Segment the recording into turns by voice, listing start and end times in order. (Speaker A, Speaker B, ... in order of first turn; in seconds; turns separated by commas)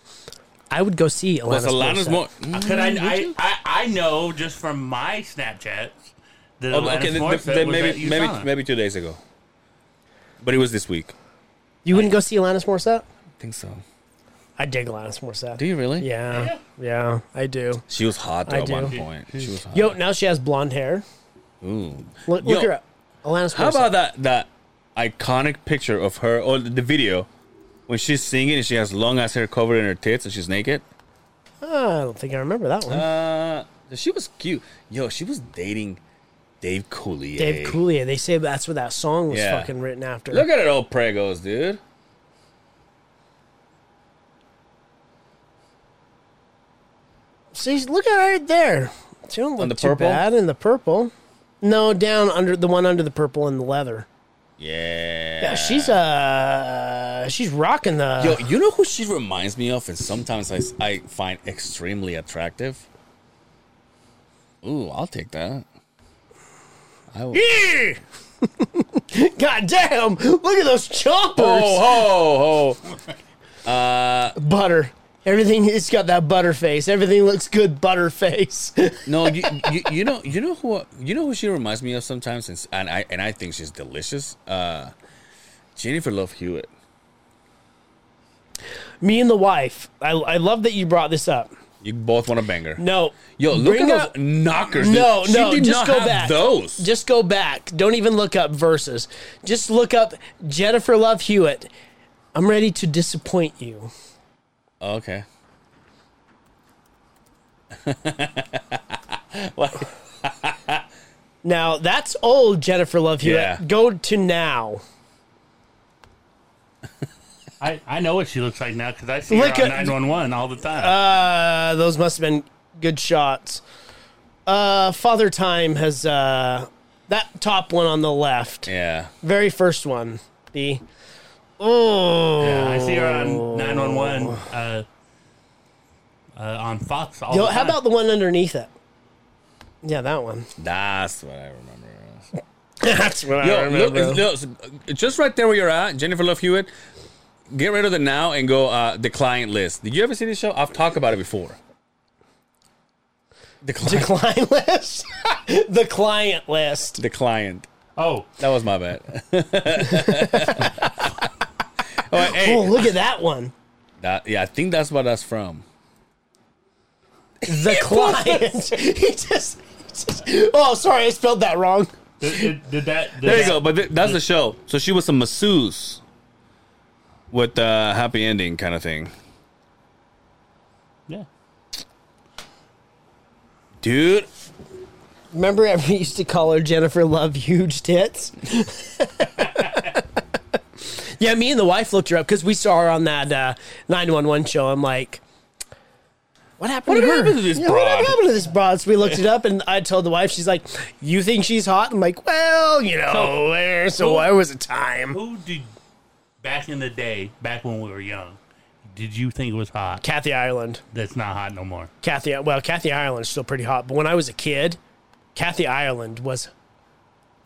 Speaker A: 0.7-2.2, Speaker B: 1.5-3.3, Speaker C: 2.5-8.5, Speaker B: 6.7-9.2, Speaker B: 10.4-11.1, Speaker A: 11.8-13.1, Speaker B: 13.4-13.8, Speaker A: 14.6-17.8, Speaker B: 15.6-16.1, Speaker C: 16.3-16.6, Speaker B: 17.9-20.0, Speaker A: 18.5-18.9, Speaker C: 18.9-19.6, Speaker A: 19.7-21.1, Speaker B: 21.6-22.7, Speaker A: 22.3-23.9, Speaker B: 23.5-27.3, Speaker B: 27.9-30.8, Speaker A: 31.6-33.1, Speaker B: 32.9-36.0, Speaker B: 36.6-37.8, Speaker A: 37.4-40.5, Speaker B: 39.3-39.7, Speaker B: 40.3-41.8, Speaker A: 47.5-54.1, Speaker B: 49.6-50.2, Speaker B: 54.6-56.0, Speaker A: 55.4-58.4, Speaker B: 58.2-62.9, Speaker B: 64.6-65.6, Speaker B: 67.1-67.5, Speaker A: 67.3-68.0, Speaker A: 68.6-72.0, Speaker B: 71.4-72.8, Speaker B: 73.6-74.4, Speaker A: 74.4-79.8, Speaker B: 79.0-84.9, Speaker B: 85.8-86.7, Speaker A: 89.0-91.5, Speaker B: 91.8-92.8, Speaker A: 92.8-94.1, Speaker B: 93.3-96.9, Speaker A: 94.8-101.7, Speaker A: 102.3-103.9, Speaker B: 104.8-105.2, Speaker B: 107.8-110.8, Speaker A: 111.4-114.8, Speaker B: 113.2-113.6, Speaker C: 117.6-121.0, Speaker A: 119.3-120.0, Speaker A: 120.8-123.6, Speaker A: 124.5-128.7, Speaker B: 128.7-129.1, Speaker A: 129.2-130.8, Speaker A: 131.6-134.4, Speaker C: 132.4-134.9, Speaker C: 136.4-137.8, Speaker A: 137.3-138.7, Speaker A: 139.8-140.5, Speaker B: 140.6-142.3, Speaker A: 142.8-144.2, Speaker B: 143.4-146.7, Speaker B: 147.5-151.6, Speaker B: 153.6-154.1, Speaker A: 153.8-157.0, Speaker B: 157.0-157.7, Speaker C: 158.0-158.3, Speaker B: 158.4-161.1, Speaker A: 159.8-160.7, Speaker B: 162.0-162.9, Speaker A: 162.2-163.5, Speaker B: 164.0-165.6, Speaker B: 167.4-168.5, Speaker A: 167.5-172.5, Speaker C: 172.2-174.2, Speaker B: 173.2-176.0, Speaker A: 173.3-173.6, Speaker B: 177.3-179.1, Speaker B: 183.8-184.3, Speaker A: 185.3-190.0, Speaker A: 190.8-195.2, Speaker A: 196.6-205.2, Speaker B: 196.9-198.2, Speaker C: 203.1-203.4, Speaker C: 204.0-204.3, Speaker C: 205.1-205.7, Speaker C: 206.4-210.0, Speaker A: 210.0-210.8, Speaker C: 210.9-211.9, Speaker A: 212.0-214.8, Speaker A: 215.3-216.5